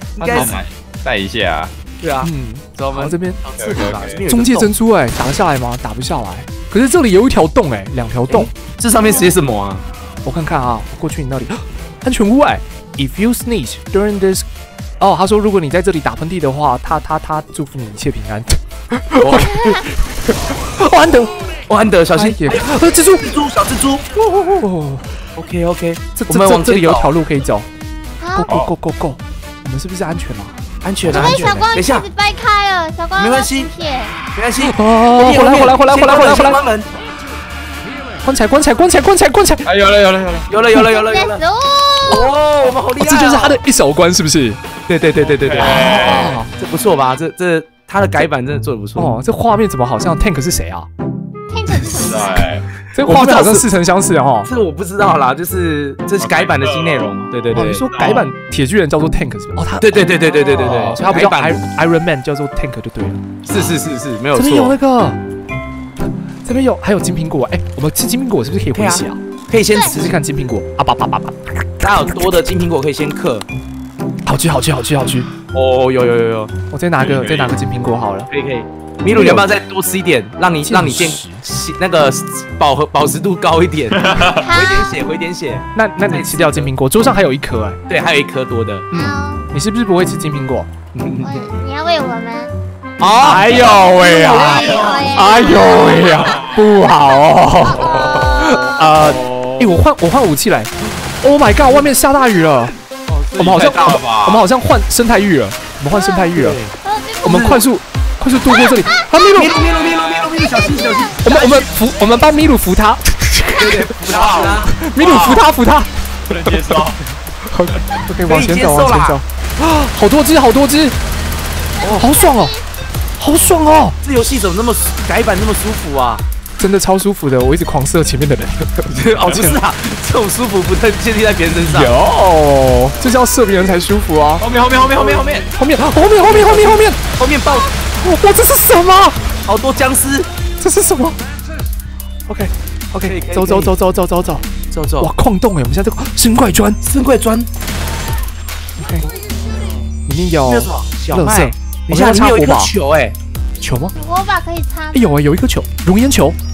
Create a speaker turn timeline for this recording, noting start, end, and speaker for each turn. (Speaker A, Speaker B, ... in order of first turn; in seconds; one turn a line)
Speaker A: 0.1-0.6
Speaker B: 0.2-1.7
Speaker A: 2.0-4.7
Speaker C: 2.2-3.4
Speaker B: 3.5-4.2
Speaker C: 4.2-8.5
Speaker A: 8.3-9.8
Speaker C: 10.2-14.4
Speaker C: 15.0-21.3
Speaker A: 19.2-19.8
Speaker D: 19.5-19.8
Speaker A: 21.7-24.0
Speaker C: 22.1-23.3
Speaker C: 24.4-25.0
Speaker A: 25.4-27.1
Speaker C: 26.1-27.6
Speaker D: 28.2-28.5
Speaker C: 28.4-30.5
Speaker A: 30.8-32.0
Speaker C: 31.0-31.7
Speaker D: 31.1-34.2
Speaker A: 33.2-33.7
Speaker A: 34.3-36.9
Speaker C: 34.6-36.6
Speaker C: 38.2-39.6
Speaker B: 39.6-40.5
Speaker A: 40.5-41.4
Speaker D: 40.7-42.3
Speaker A: 42.0-43.6
Speaker C: 43.0-44.6
Speaker A: 44.9-49.1
Speaker B: 45.2-46.4
Speaker C: 45.5-46.5
Speaker C: 49.0-50.9
Speaker D: 51.5-52.5
Speaker B: 51.9-52.6
Speaker C: 52.9-54.5
Speaker A: 53.0-53.7
Speaker A: 54.4-58.1
Speaker B: 56.2-58.3
Speaker C: 57.5-63.2
Speaker A: 59.8-61.6
Speaker A: 63.5-64.8
Speaker C: 64.3-65.2
Speaker C: 66.4-69.2
Speaker A: 68.7-70.2
Speaker C: 69.9-72.5
Speaker A: 71.8-73.5
Speaker C: 74.2-75.3
Speaker A: 75.5-76.5
Speaker C: 76.7-78.3
Speaker B: 77.0-77.5
Speaker A: 78.3-86.7
Speaker C: 79.1-79.5
Speaker C: 80.6-81.4
Speaker B: 83.9-84.5
Speaker D: 84.4-85.0
Speaker C: 85.7-87.8
Speaker A: 87.9-88.9
Speaker D: 88.9-89.5
Speaker C: 88.9-90.7
Speaker A: 90.9-91.4
Speaker D: 91.2-92.5
Speaker A: 93.0-95.1
Speaker C: 93.2-102.7
Speaker B: 93.3-96.6
Speaker D: 93.5-96.4
Speaker D: 97.6-98.9
Speaker B: 97.8-99.8
Speaker B: 103.1-104.4
Speaker C: 103.4-106.6
Speaker D: 105.9-106.3
Speaker A: 106.3-107.6
Speaker D: 106.8-107.6
Speaker C: 107.2-109.6
Speaker D: 108.4-111.2
Speaker A: 109.2-111.7
Speaker B: 109.8-110.3
Speaker C: 111.2-116.9
Speaker A: 113.5-114.8
Speaker B: 114.0-115.5
Speaker B: 116.3-117.0
Speaker C: 117.5-121.0
Speaker A: 118.2-119.2
Speaker D: 121.7-122.6
Speaker A: 121.8-122.1
Speaker C: 122.0-122.5
Speaker C: 123.2-124.0
Speaker A: 124.0-126.2
Speaker C: 126.6-129.6
Speaker A: 128.9-131.9
Speaker B: 129.1-129.5
Speaker C: 131.6-134.4
Speaker B: 134.4-135.5
Speaker A: 134.7-135.5
Speaker C: 135.5-137.0
Speaker A: 136.2-137.7
Speaker C: 138.0-139.2
Speaker A: 139.4-140.3
Speaker C: 140.6-141.2
Speaker C: 142.3-144.4
Speaker A: 143.1-143.7
Speaker A: 144.7-145.1
Speaker C: 145.0-146.8
Speaker A: 146.8-147.5
Speaker C: 148.8-149.1
Speaker C: 150.1-152.7
Speaker A: 150.4-153.1
Speaker C: 153.6-153.9
Speaker D: 153.9-155.0
Speaker C: 154.9-156.3